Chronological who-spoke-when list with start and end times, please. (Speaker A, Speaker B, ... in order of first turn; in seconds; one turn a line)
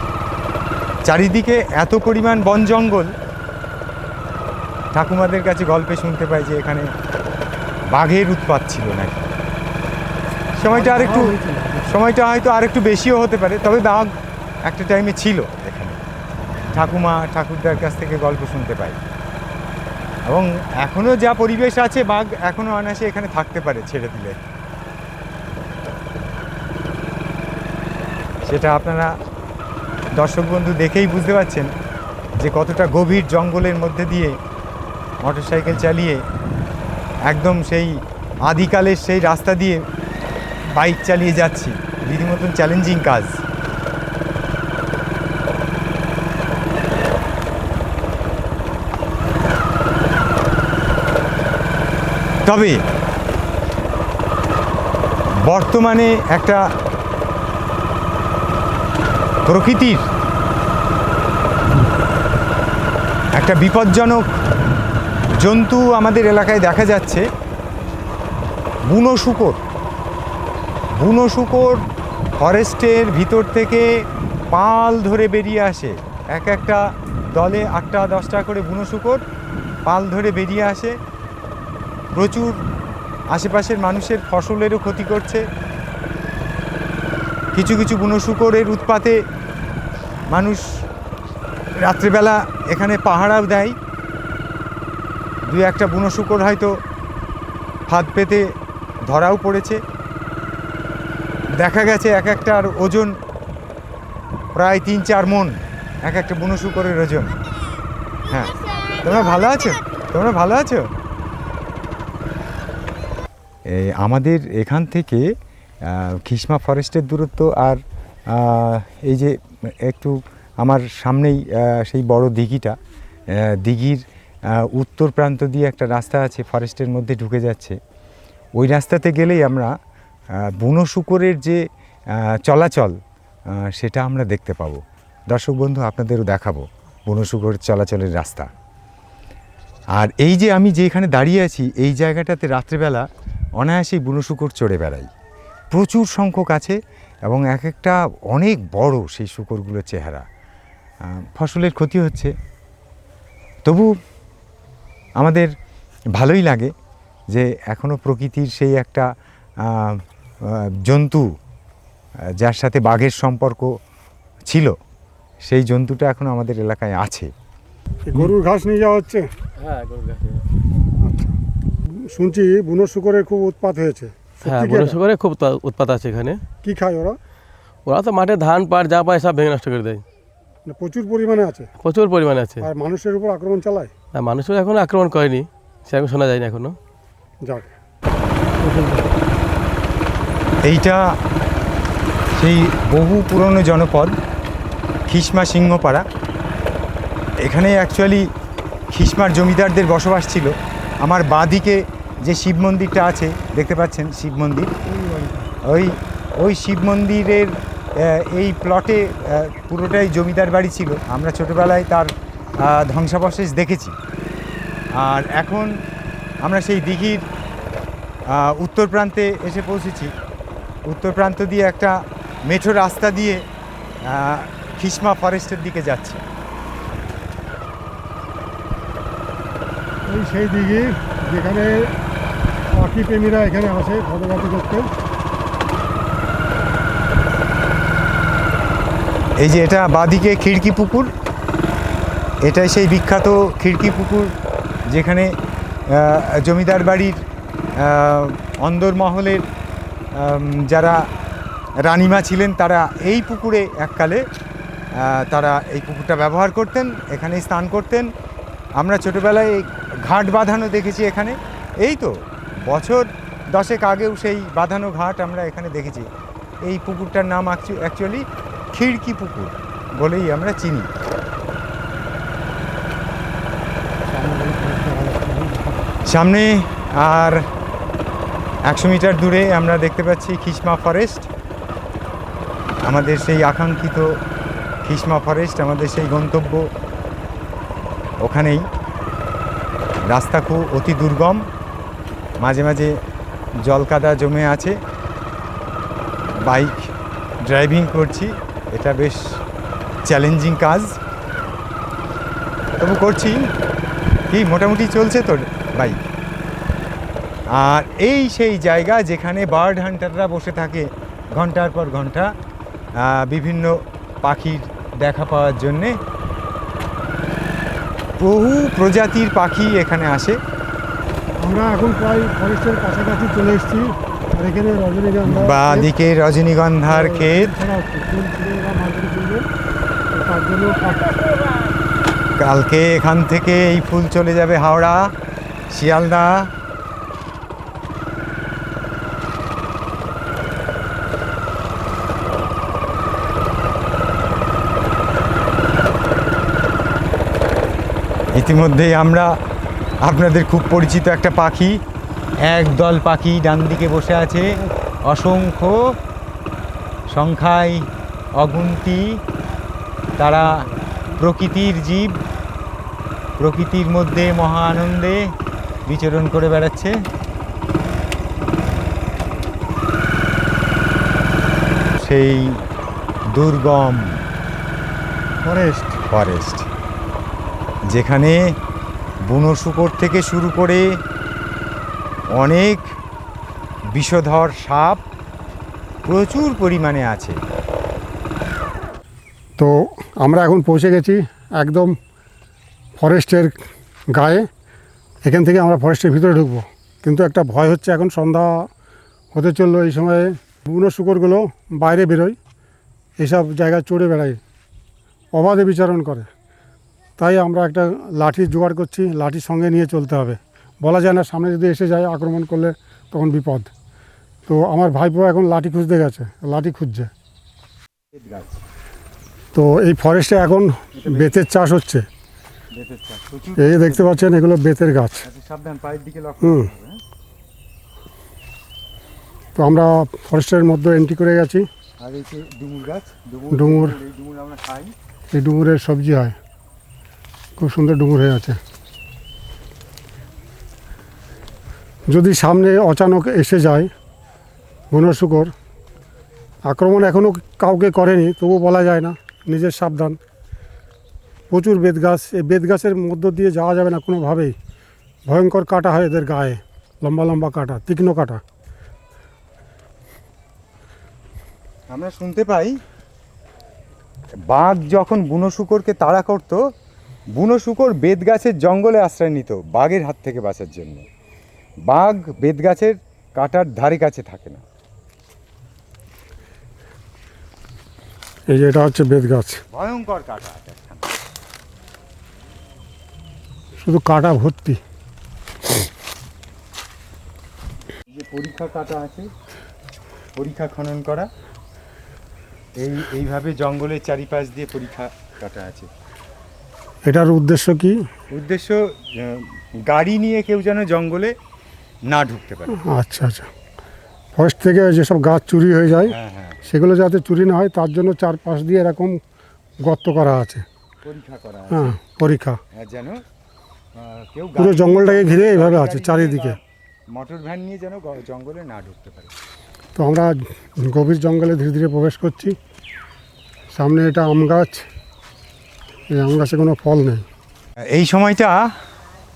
Speaker A: 1.1-3.1
Speaker A: 4.9-6.9
Speaker A: 7.9-9.3
Speaker A: 10.6-11.3
Speaker B: 10.7-12.0
Speaker A: 11.9-14.1
Speaker A: 14.7-16.0
Speaker A: 16.7-19.0
Speaker A: 20.3-24.4
Speaker A: 28.4-29.1
Speaker A: 30.2-31.7
Speaker A: 32.4-34.4
Speaker A: 35.2-36.2
Speaker A: 37.3-39.8
Speaker A: 40.7-43.4
Speaker A: 52.5-52.8
Speaker A: 55.5-56.6
Speaker A: 59.5-60.0
Speaker A: 63.3-64.2
Speaker A: 65.4-67.2
Speaker A: 68.9-69.6
Speaker A: 71.0-71.8
Speaker A: 72.4-73.9
Speaker A: 74.5-76.8
Speaker A: 77.3-79.2
Speaker A: 79.8-81.0
Speaker A: 82.2-82.6
Speaker A: 83.3-85.4
Speaker A: 87.5-89.2
Speaker A: 90.3-90.6
Speaker A: 91.8-93.8
Speaker A: 95.5-96.7
Speaker A: 97.9-98.5
Speaker A: 99.1-99.8
Speaker A: 101.6-103.1
Speaker A: 104.5-107.4
Speaker A: 108.3-110.9
Speaker A: 113.7-115.3
Speaker A: 115.8-122.8
Speaker A: 123.3-127.8
Speaker A: 128.6-129.7
Speaker A: 130.3-131.6
Speaker A: 132.1-132.9
Speaker A: 133.5-138.5
Speaker A: 139.9-143.1
Speaker A: 143.6-145.1
Speaker A: 145.7-150.2
Speaker A: 151.0-152.3
Speaker A: 153.6-153.9
Speaker A: 155.2-155.5
Speaker A: 156.1-156.7
Speaker A: 157.3-159.1
Speaker A: 159.6-161.3
Speaker A: 162.4-163.7
Speaker A: 164.5-164.8
Speaker A: 165.4-167.3
Speaker B: 168.1-169.3
Speaker C: 169.6-170.4
Speaker B: 171.0-171.3
Speaker B: 172.0-175.0
Speaker C: 174.4-176.4
Speaker B: 176.6-177.2
Speaker C: 177.9-180.0
Speaker B: 180.7-181.7
Speaker C: 181.8-182.7
Speaker B: 182.6-183.9
Speaker C: 184.2-186.8
Speaker B: 187.4-187.7
Speaker B: 188.6-189.1
Speaker A: 190.6-191.2
Speaker A: 192.4-194.1
Speaker A: 195.1-196.0
Speaker A: 197.4-198.3
Speaker A: 198.9-204.7
Speaker B: 204.9-205.5
Speaker A: 205.6-213.9
Speaker A: 214.9-215.8
Speaker A: 216.4-217.2
Speaker A: 218.3-220.1
Speaker A: 220.9-223.4
Speaker A: 224.0-226.2
Speaker B: 230.1-231.9
Speaker B: 232.7-234.9
Speaker A: 239.4-241.1
Speaker A: 242.4-244.3
Speaker A: 244.9-245.3
Speaker A: 245.9-247.2
Speaker A: 247.8-249.4
Speaker A: 250.1-251.0
Speaker A: 251.8-254.2
Speaker A: 254.9-258.1
Speaker A: 258.8-262.1
Speaker A: 262.7-266.1
Speaker A: 266.6-270.9
Speaker B: 274.1-275.9
Speaker A: 276.1-277.4
Speaker A: 278.6-281.3
Speaker A: 282.9-284.1
Speaker A: 284.9-286.7
Speaker A: 288.2-288.6
Speaker A: 290.1-291.4
Speaker A: 292.4-292.9
Speaker A: 293.6-294.8
Speaker A: 296.4-296.9
Speaker A: 297.4-299.4
Speaker A: 300.1-301.0
Speaker A: 302.8-303.5
Speaker A: 304.3-306.0
Speaker A: 307.5-312.3
Speaker A: 313.0-316.0
Speaker A: 318.2-320.4
Speaker B: 321.4-325.9
Speaker A: 325.2-327.5
Speaker B: 326.9-329.4
Speaker B: 330.1-331.1
Speaker A: 332.4-335.1
Speaker A: 335.7-336.5
Speaker A: 348.4-349.3
Speaker A: 350.0-351.8
Speaker A: 352.5-355.8
Speaker A: 357.1-357.9
Speaker A: 358.4-359.2
Speaker A: 360.2-360.5
Speaker A: 361.2-362.1
Speaker A: 363.4-365.2
Speaker A: 365.9-366.9
Speaker A: 372.0-372.6
Speaker A: 373.3-374.2
Speaker B: 375.4-376.0
Speaker A: 376.1-376.7
Speaker A: 377.9-378.5
Speaker A: 379.3-380.9
Speaker A: 382.3-382.9
Speaker A: 383.9-385.0
Speaker A: 386.1-387.4
Speaker B: 389.6-391.9
Speaker B: 393.0-393.6
Speaker B: 394.1-394.5
Speaker B: 395.2-398.7
Speaker B: 399.3-402.4
Speaker B: 403.2-404.4
Speaker B: 405.3-406.3
Speaker B: 407.2-413.7
Speaker B: 414.5-417.1
Speaker A: 418.1-418.6
Speaker B: 419.5-422.1
Speaker A: 421.0-421.4
Speaker A: 422.8-424.3
Speaker B: 423.6-425.2
Speaker A: 425.2-427.0
Speaker B: 426.4-426.7
Speaker B: 429.6-431.6
Speaker A: 432.0-434.9
Speaker B: 433.5-434.0
Speaker B: 435.3-436.4
Speaker B: 437.6-438.6
Speaker B: 442.1-443.9
Speaker B: 444.9-445.5
Speaker B: 446.7-450.2
Speaker B: 451.5-454.5
Speaker B: 455.3-458.4
Speaker A: 461.9-462.8
Speaker A: 464.5-466.6
Speaker A: 467.4-471.0
Speaker A: 471.9-474.6
Speaker B: 478.5-479.6
Speaker A: 479.7-481.1
Speaker B: 483.8-484.8
Speaker A: 488.1-489.3
Speaker A: 490.4-491.3
Speaker A: 492.8-495.9
Speaker B: 497.0-498.0
Speaker A: 498.3-501.3
Speaker A: 502.1-502.8
Speaker B: 502.7-503.5
Speaker B: 504.4-509.2
Speaker A: 506.0-506.6
Speaker B: 509.8-510.6
Speaker A: 511.0-511.9
Speaker B: 511.7-512.6
Speaker A: 512.8-513.2
Speaker A: 514.0-516.6
Speaker B: 514.6-516.6
Speaker A: 517.1-519.3
Speaker B: 520.0-522.5
Speaker B: 523.7-524.9
Speaker B: 526.1-527.2
Speaker A: 527.9-528.6